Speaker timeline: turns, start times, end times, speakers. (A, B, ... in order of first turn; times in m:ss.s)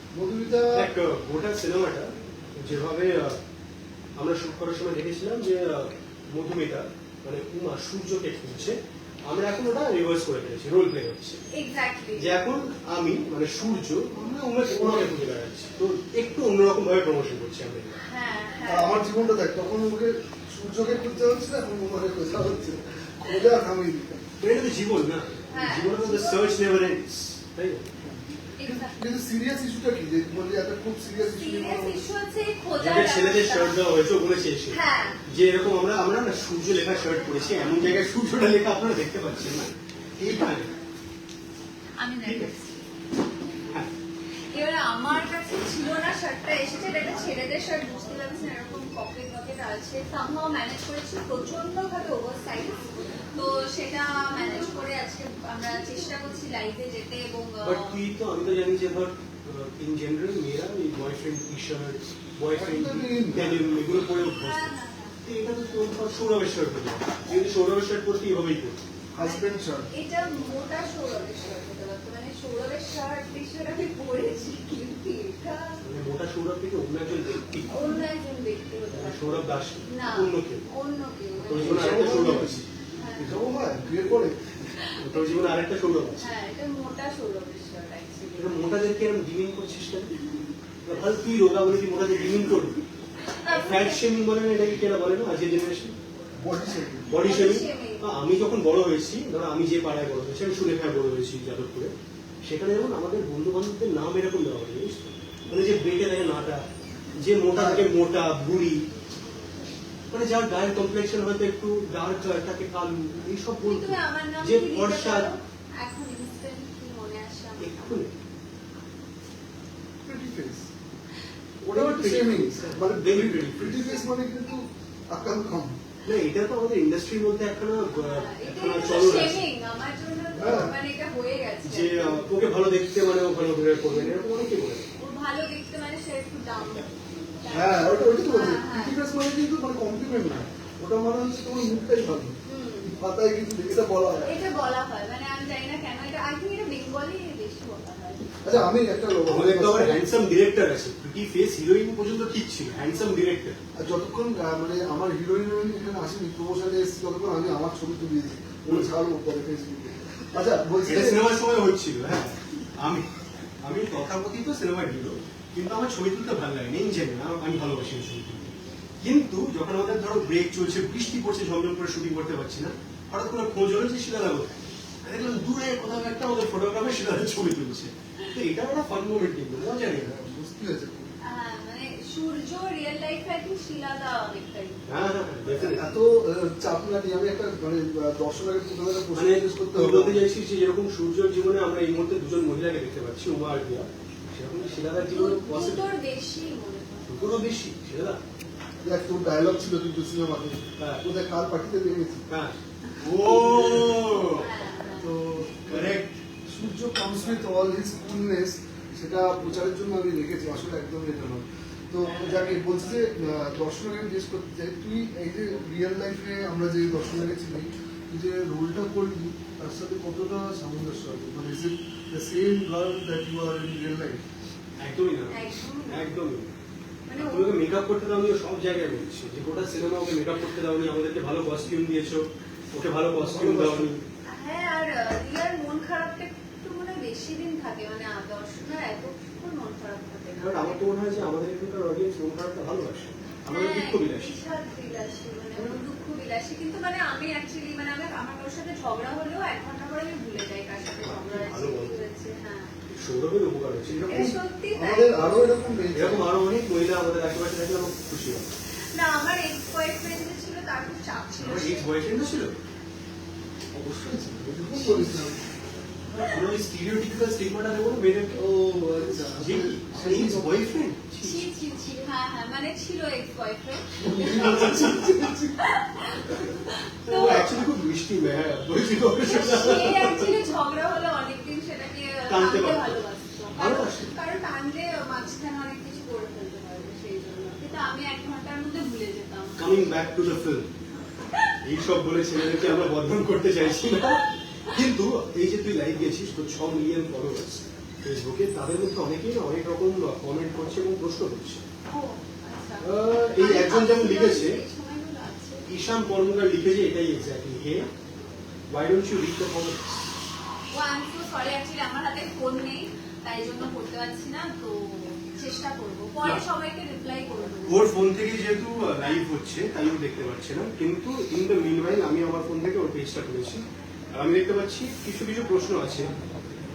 0:00.1-0:00.9 A
0:00.7-0:03.4 B
0:04.2-0:11.4 B
0:11.5-0:12.4 C
0:12.2-0:18.0 B
0:14.7-0:15.1 A
0:18.0-0:19.1 C
0:18.7-0:24.2 A
0:24.4-0:27.9 B
0:25.5-0:26.6 C
0:28.0-0:32.0 A
0:28.6-0:29.0 C
0:31.3-0:33.8 C
0:32.8-0:40.7 B
0:34.7-0:35.2 C
0:42.0-0:42.7 C
0:42.2-0:42.5 B
0:44.5-0:58.0 C
0:57.6-1:04.7 B
1:02.6-1:03.7 A
1:04.2-1:05.2 C
1:05.2-1:08.8 B
1:09.1-1:09.9 A
1:09.2-1:15.8 C
1:15.8-1:18.0 B
1:17.7-1:21.9 C
1:18.9-1:20.7 B
1:21.4-1:22.6 B
1:21.5-1:24.4 A
1:23.0-1:24.1 C
1:24.7-1:25.6 C
1:25.0-1:26.3 B
1:26.2-1:28.8 C
1:28.4-1:30.2 B
1:30.8-1:32.8 B
1:33.2-1:34.0 C
1:33.5-1:36.0 B
1:36.4-1:37.1 A
1:37.1-1:41.9 B
1:37.1-1:38.0 C
1:42.4-1:48.9 B
1:47.5-1:47.9 A
1:50.1-1:55.3 B
1:53.6-1:58.1 C
1:57.6-1:58.1 B
2:00.0-2:00.7 A
2:01.6-2:04.0 B
2:01.7-2:05.8 A
2:06.0-2:09.5 B
2:07.9-2:12.3 C
2:10.4-2:10.8 A
2:11.6-2:14.9 B
2:15.0-2:19.0 C
2:17.5-2:22.4 A
2:22.4-2:23.0 C
2:23.0-2:24.4 A
2:24.2-2:28.3 C
2:28.4-2:30.1 A
2:29.3-2:33.6 B
2:33.8-2:41.3 A
2:40.8-2:43.1 B
2:43.6-3:00.1 B
2:59.9-3:01.1 A
3:01.2-3:04.9 C
3:04.9-3:05.9 B
3:05.7-3:10.3 A
3:09.2-3:15.9 B
3:15.1-3:17.3 C
3:17.1-3:18.2 B
3:18.8-3:22.2 A
3:20.8-3:21.0 B
3:22.3-3:24.5 B
3:24.2-3:25.2 C
3:25.0-3:44.2 A
3:25.7-3:26.2 B
3:32.1-3:32.6 B
3:44.8-3:46.5 B
3:45.3-3:46.1 C
3:47.1-3:47.6 C
3:47.2-3:54.0 B
3:53.1-3:54.0 A
3:54.3-4:00.9 C
4:00.4-4:04.4 B
4:03.5-4:12.7 C
4:11.0-4:12.0 B
4:12.9-4:14.2 B
4:13.9-4:16.3 A
4:14.1-4:15.6 C
4:15.9-4:18.5 B
4:18.9-4:22.0 C
4:21.4-4:22.5 B
4:23.7-4:25.4 A
4:24.7-4:25.3 C
4:26.2-4:28.5 B
4:28.4-4:30.7 A
4:29.4-4:31.5 B
4:31.2-4:37.6 C
4:34.0-4:35.6 A
4:34.3-4:35.1 B
4:37.0-4:40.3 B
4:39.2-4:50.3 C
4:42.3-4:43.0 B
4:43.6-4:44.1 B
4:49.6-4:50.7 B
4:51.6-5:01.6 B
5:01.9-5:05.7 C
5:02.8-5:04.6 B
5:05.7-5:07.9 B
5:08.7-5:09.8 B
5:10.7-5:18.0 C
5:17.7-5:26.1 B